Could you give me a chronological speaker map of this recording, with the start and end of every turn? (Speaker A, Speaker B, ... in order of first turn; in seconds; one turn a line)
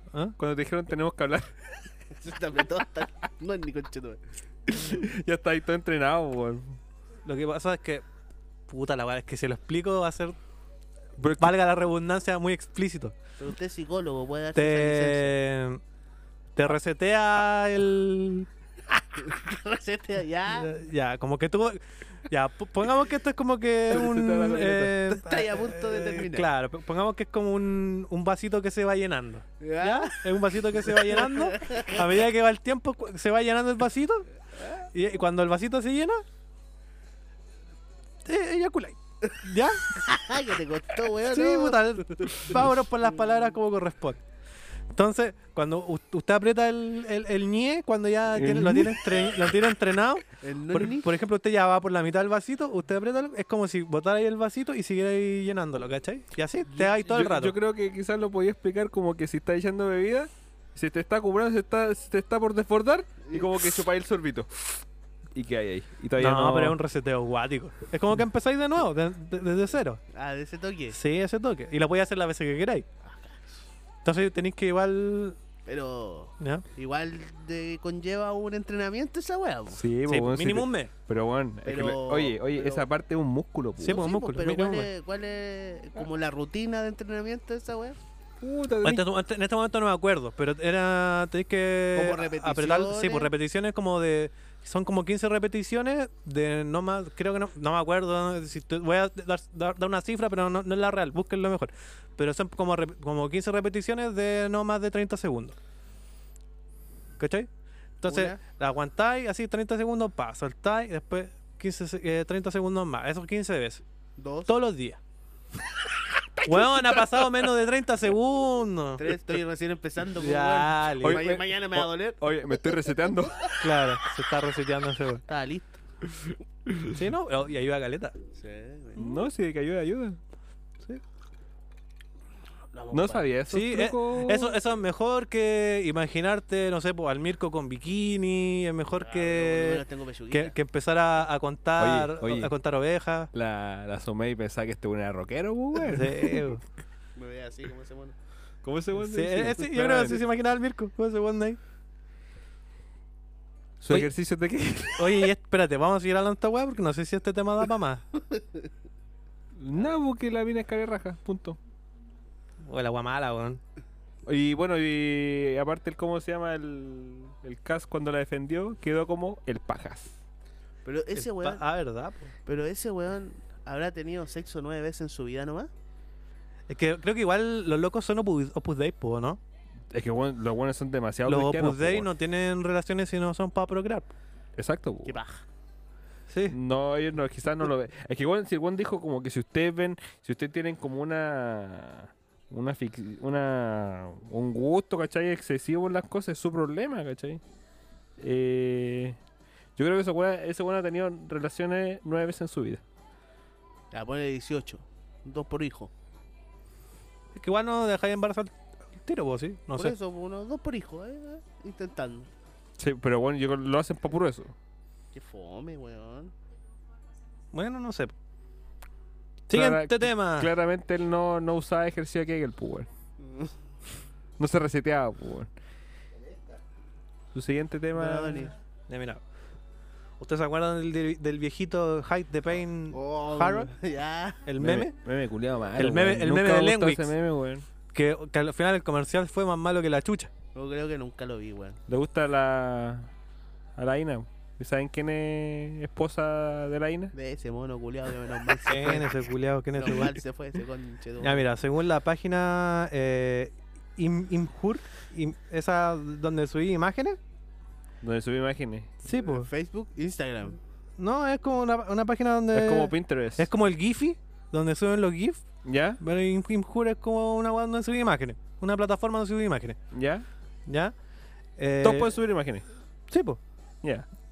Speaker A: 0.4-1.9
Speaker B: 2.1-4.2
Speaker A: 4.7-6.8
Speaker C: 7.2-8.0
Speaker C: 8.7-10.3
Speaker A: 11.2-11.5
Speaker C: 11.4-13.1
Speaker B: 13.4-15.4
Speaker C: 14.6-15.8
Speaker C: 16.6-18.5
Speaker B: 19.1-20.7
Speaker C: 20.5-34.3
Speaker A: 23.9-25.0
Speaker B: 25.0-26.5
Speaker B: 29.6-32.2
Speaker B: 34.6-34.8
Speaker C: 34.9-36.2
Speaker C: 38.2-39.8
Speaker B: 39.9-42.6
Speaker C: 41.2-44.2
Speaker C: 44.9-57.5
Speaker A: 48.3-49.0
Speaker B: 50.4-51.1
Speaker A: 56.7-64.8
Speaker A: 65.3-66.8
Speaker C: 66.2-70.0
Speaker B: 70.1-71.0
Speaker C: 70.9-72.8
Speaker B: 73.0-73.6
Speaker C: 74.0-75.4
Speaker B: 75.7-79.8
Speaker A: 79.7-84.1
Speaker C: 80.1-80.9
Speaker B: 81.6-82.8
Speaker C: 83.8-84.9
Speaker B: 83.8-88.0
Speaker A: 88.4-89.0
Speaker C: 88.8-105.5
Speaker B: 91.9-93.3
Speaker C: 107.2-107.5
Speaker C: 108.0-113.8
Speaker B: 108.0-108.4
Speaker B: 114.2-114.5
Speaker C: 114.5-115.0
Speaker A: 116.2-117.5
Speaker C: 116.4-119.1
Speaker B: 119.0-122.7
Speaker C: 120.2-121.2
Speaker A: 121.0-123.7
Speaker C: 123.6-125.2
Speaker B: 125.3-125.8
Speaker A: 126.7-127.0
Speaker C: 126.9-128.2
Speaker B: 128.3-129.2
Speaker A: 128.9-130.2
Speaker B: 132.7-133.2
Speaker A: 132.9-134.6
Speaker C: 133.5-143.3
Speaker B: 139.0-140.5
Speaker A: 141.8-142.5
Speaker A: 143.3-146.4
Speaker C: 145.8-146.6
Speaker B: 147.2-148.2
Speaker A: 148.6-150.2
Speaker C: 149.0-151.6
Speaker A: 153.8-155.3
Speaker C: 154.9-158.0
Speaker B: 158.3-158.6
Speaker A: 159.6-161.6
Speaker C: 162.6-163.6
Speaker A: 164.2-170.2
Speaker B: 170.8-171.6
Speaker C: 171.2-172.3
Speaker B: 172.4-175.7
Speaker C: 176.7-179.4
Speaker A: 179.9-182.1
Speaker C: 181.2-184.1
Speaker A: 184.6-185.2
Speaker B: 185.0-185.4
Speaker C: 186.3-186.6
Speaker A: 186.5-197.4
Speaker A: 198.2-199.2
Speaker A: 199.8-202.8
Speaker B: 203.9-205.9
Speaker C: 207.3-208.5
Speaker C: 209.0-209.9
Speaker B: 209.7-212.3
Speaker A: 212.8-214.5
Speaker B: 215.1-216.3
Speaker C: 217.5-218.1
Speaker C: 219.5-220.5
Speaker A: 219.5-222.9
Speaker B: 223.2-223.5
Speaker A: 224.4-225.5
Speaker A: 227.3-228.5
Speaker B: 227.9-228.5
Speaker C: 228.9-229.2
Speaker C: 230.2-233.7
Speaker B: 232.9-234.4
Speaker C: 234.4-234.9
Speaker A: 234.6-237.6
Speaker C: 235.8-237.1
Speaker C: 237.9-240.3
Speaker B: 240.5-241.8
Speaker A: 241.9-243.1
Speaker A: 243.8-247.1
Speaker B: 247.1-249.1
Speaker C: 248.7-250.2
Speaker B: 249.7-251.4
Speaker C: 251.2-257.2
Speaker A: 258.0-259.0
Speaker C: 259.0-259.5
Speaker B: 259.1-260.6
Speaker C: 261.0-265.4
Speaker A: 262.5-263.5
Speaker A: 265.6-266.0
Speaker C: 266.0-269.8
Speaker A: 269.9-270.2
Speaker C: 270.7-270.9
Speaker C: 271.6-272.1
Speaker A: 271.8-272.6
Speaker C: 273.1-273.4